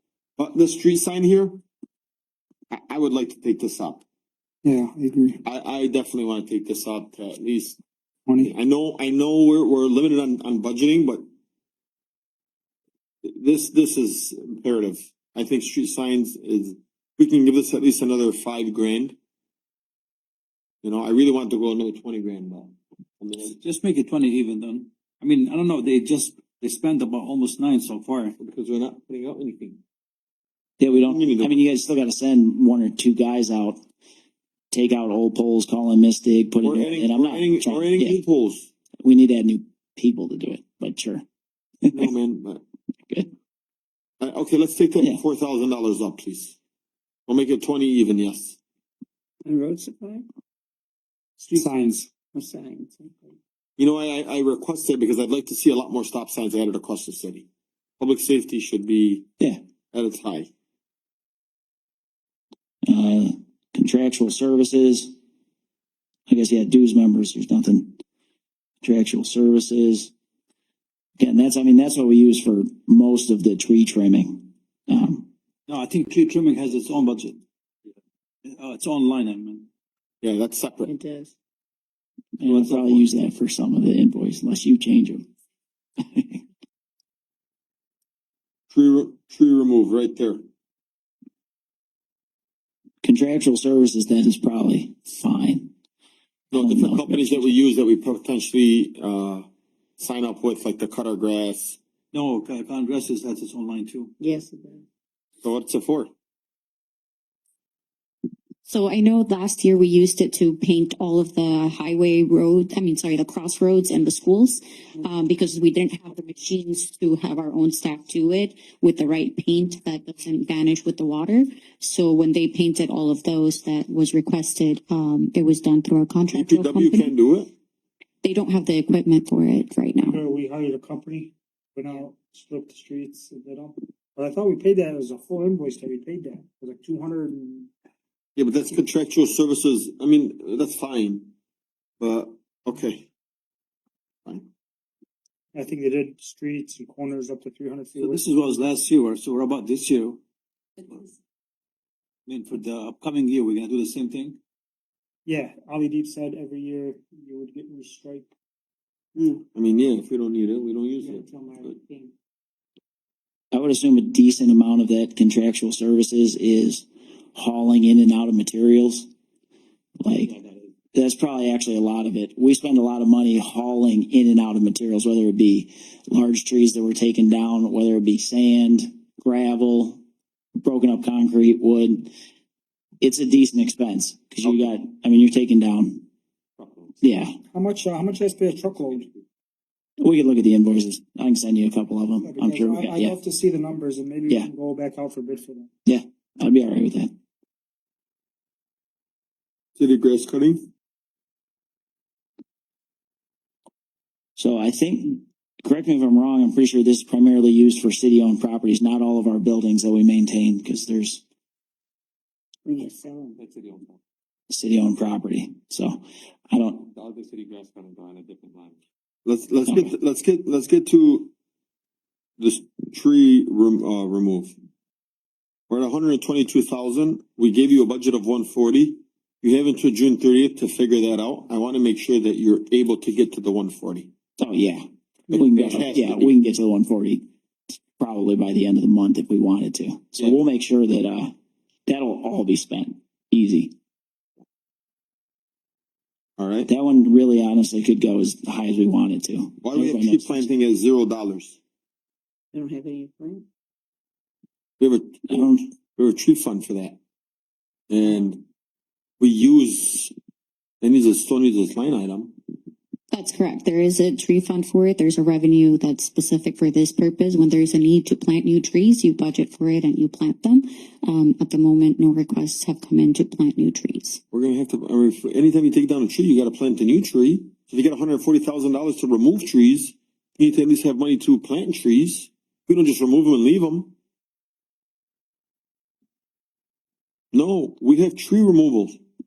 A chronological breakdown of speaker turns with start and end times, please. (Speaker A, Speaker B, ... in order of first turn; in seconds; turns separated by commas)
Speaker A: 0.4-1.6, Speaker A: 2.7-4.0, Speaker B: 4.6-5.4, Speaker A: 5.4-7.8, Speaker B: 8.3-8.5, Speaker A: 8.4-11.2, Speaker A: 13.2-19.1, Speaker A: 20.8-23.6, Speaker C: 23.4-28.3, Speaker A: 28.4-29.8, Speaker D: 30.8-33.8, Speaker A: 30.9-31.6, Speaker D: 34.7-38.1, Speaker A: 36.6-38.7, Speaker D: 39.0-41.2, Speaker D: 41.8-42.1, Speaker A: 41.9-42.6, Speaker A: 44.2-46.6, Speaker A: 47.3-48.6, Speaker E: 49.4-50.2, Speaker B: 51.4-52.1, Speaker E: 52.2-53.4, Speaker A: 53.8-57.5, Speaker A: 58.0-59.2, Speaker A: 59.9-60.5, Speaker D: 62.8-65.1, Speaker D: 66.3-68.0, Speaker D: 68.8-70.1, Speaker D: 71.2-75.3, Speaker C: 75.7-77.4, Speaker C: 78.4-79.7, Speaker A: 80.2-80.9, Speaker E: 80.8-81.3, Speaker D: 82.4-85.2, Speaker A: 82.5-83.1, Speaker D: 86.0-86.4, Speaker A: 88.7-90.4, Speaker D: 93.0-95.7, Speaker A: 96.5-99.5, Speaker D: 96.5-97.5, Speaker A: 100.0-101.8, Speaker C: 102.1-104.1, Speaker E: 104.2-104.8, Speaker A: 105.4-106.1, Speaker F: 108.7-127.1, Speaker A: 126.3-127.5, Speaker F: 128.2-130.2, Speaker B: 130.0-137.7, Speaker A: 138.3-141.3, Speaker A: 142.0-143.1, Speaker B: 145.5-148.2, Speaker C: 148.0-150.2, Speaker C: 152.3-154.4, Speaker B: 155.2-158.3, Speaker E: 159.2-159.4, Speaker A: 159.5-161.8, Speaker E: 161.0-162.1, Speaker D: 163.5-169.1, Speaker D: 170.0-170.4, Speaker D: 170.9-180.0, Speaker D: 180.6-182.1, Speaker D: 183.0-186.0, Speaker A: 184.4-184.7, Speaker A: 186.6-186.9, Speaker D: 187.0-187.3, Speaker B: 187.5-189.1, Speaker D: 190.0-193.2, Speaker B: 192.2-195.7, Speaker D: 195.8-197.1, Speaker A: 199.8-200.7, Speaker D: 204.3-211.2, Speaker E: 212.7-213.4, Speaker A: 213.4-214.0, Speaker D: 214.5-216.9, Speaker A: 216.9-221.3, Speaker D: 219.7-219.9, Speaker A: 222.4-224.5, Speaker A: 225.7-234.1, Speaker D: 234.4-237.2, Speaker A: 235.3-236.4, Speaker D: 238.0-241.3, Speaker D: 241.9-243.7, Speaker A: 246.4-246.7, Speaker D: 246.7-250.5, Speaker A: 249.6-251.6, Speaker E: 252.5-253.4, Speaker A: 254.8-257.0, Speaker D: 255.3-255.6, Speaker A: 257.9-258.4, Speaker A: 259.2-260.1, Speaker A: 260.8-262.3, Speaker F: 263.1-274.2, Speaker A: 274.3-283.9, Speaker A: 287.3-289.0